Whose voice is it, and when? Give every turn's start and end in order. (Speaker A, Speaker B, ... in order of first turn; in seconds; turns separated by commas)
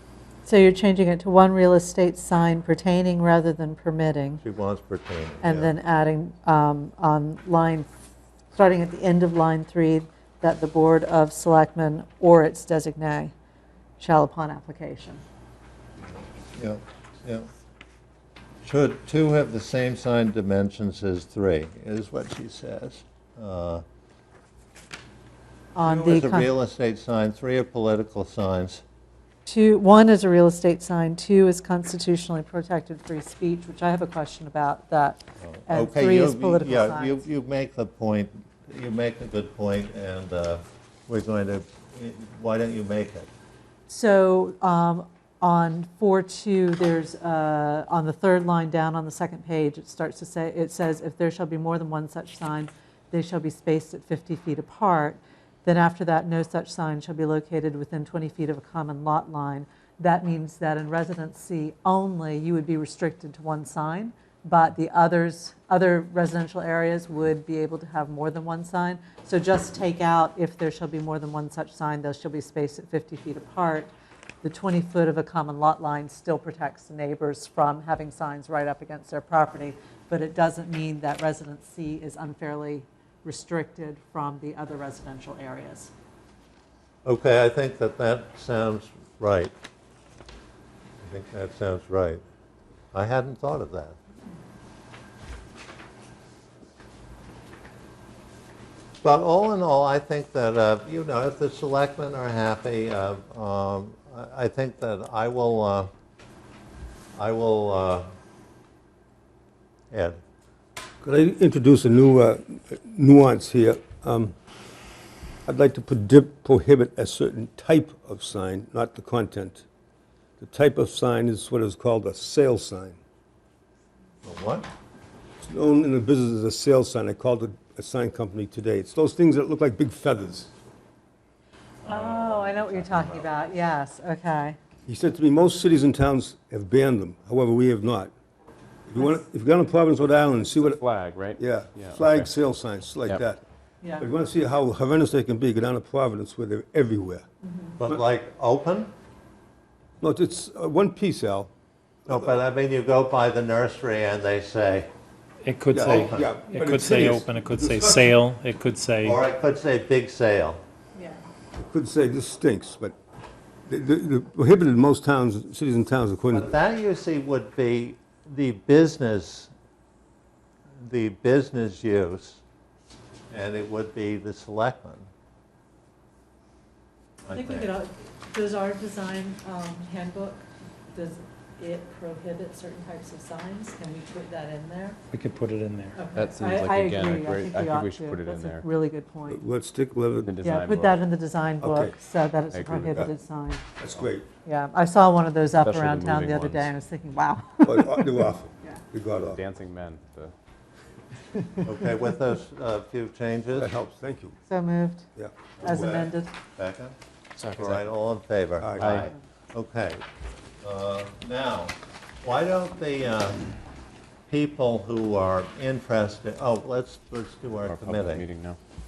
Speaker A: 0.5-4.4, Speaker B: 4.4-5.7, Speaker A: 5.4-7.9, Speaker A: 8.5-13.3, Speaker A: 14.0-15.2, Speaker B: 16.6-17.5, Speaker B: 18.6-23.8, Speaker A: 25.8-26.5, Speaker B: 25.8-28.8, Speaker A: 29.5-37.2, Speaker B: 35.4-43.3, Speaker A: 43.9-73.9, Speaker A: 74.4-85.9, Speaker B: 87.0-89.5, Speaker B: 91.0-92.2, Speaker B: 92.9-94.0, Speaker B: 99.0-105.9, Speaker B: 107.2-108.1, Speaker B: 109.9-110.2, Speaker C: 111.0-114.3, Speaker C: 115.5-119.7, Speaker C: 120.4-123.0, Speaker B: 124.2-124.7, Speaker C: 125.4-130.5, Speaker A: 131.8-134.6, Speaker B: 131.9-133.2, Speaker C: 134.9-138.1, Speaker C: 138.9-140.8, Speaker D: 140.6-142.3, Speaker C: 141.4-143.4, Speaker A: 143.8-144.1, Speaker C: 144.0-147.2, Speaker A: 147.4-147.8, Speaker B: 147.8-148.9, Speaker C: 150.0-151.5, Speaker C: 152.1-152.3, Speaker B: 152.1-154.9, Speaker E: 155.4-159.2, Speaker C: 155.7-158.0, Speaker B: 155.8-156.3, Speaker B: 159.0-160.6, Speaker C: 161.6-162.9, Speaker C: 163.7-166.6, Speaker B: 166.3-169.5, Speaker B: 170.8-172.4, Speaker B: 173.3-175.1, Speaker B: 177.2-177.7, Speaker A: 177.3-185.0, Speaker E: 185.1-186.0, Speaker A: 185.9-189.4, Speaker D: 186.1-188.7, Speaker C: 189.3-190.3, Speaker D: 190.2-191.1, Speaker A: 190.4-193.6, Speaker C: 191.6-192.0, Speaker D: 192.5-193.1, Speaker C: 193.8-194.3, Speaker A: 194.4-198.8, Speaker D: 195.6-196.7, Speaker C: 197.6-199.4, Speaker D: 199.1-200.3, Speaker B: 201.6-203.7, Speaker C: 203.6-204.4, Speaker A: 204.5-205.1, Speaker C: 205.2-206.0, Speaker B: 205.6-207.0, Speaker A: 205.6-206.3, Speaker D: 207.4-207.9, Speaker B: 207.6-210.0, Speaker C: 208.6-209.1, Speaker D: 208.8-209.1, Speaker B: 210.6-213.4, Speaker B: 214.3-218.2, Speaker D: 217.6-218.6